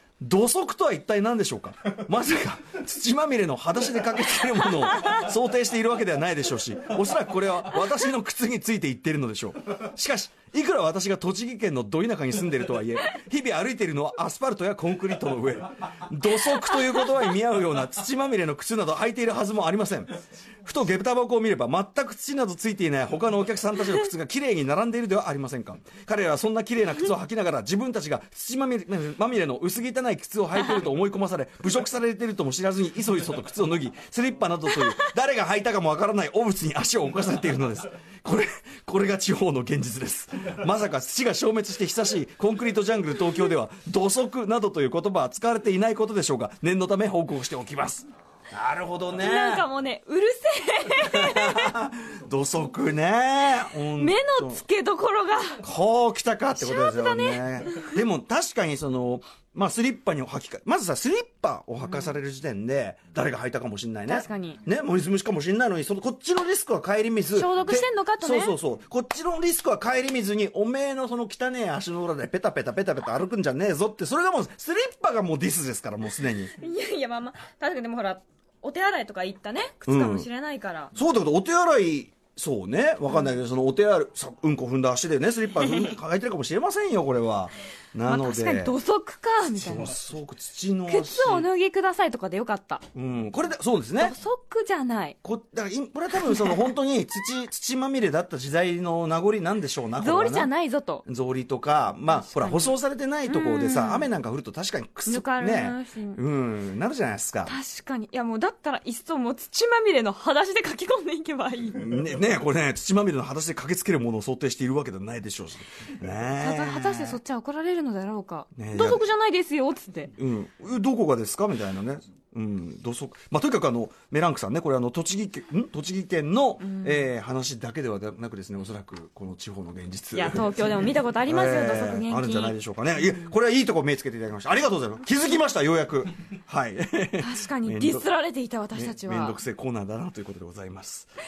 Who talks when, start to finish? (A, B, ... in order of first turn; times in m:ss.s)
0:00.2-0:49.7 A
0:49.2-0:51.8 B
0:51.1-0:54.6 A
0:54.0-0:55.6 B
0:55.6-1:16.6 A
0:56.6-0:57.9 B
1:01.8-1:02.2 B
1:04.1-1:04.6 B
1:07.3-1:08.6 B
1:16.6-1:20.9 B
1:19.9-1:20.3 A
1:21.0-1:28.8 A
1:23.1-1:23.3 B
1:28.0-1:30.0 B
1:29.5-1:31.5 A
1:30.9-1:32.8 B
1:32.9-1:34.2 A
1:34.0-1:35.2 B
1:35.2-1:40.5 A
1:40.0-1:41.0 B
1:41.0-1:47.6 A
1:42.1-1:44.1 B
1:45.1-1:46.2 B
1:47.4-1:51.9 B
1:51.8-1:57.2 A
1:56.4-2:00.1 B
1:58.5-1:59.0 A
2:00.2-2:10.5 A
2:06.6-2:07.1 B
2:10.1-2:13.3 B
2:11.3-2:18.1 A
2:17.2-2:19.4 B
2:18.7-2:21.1 A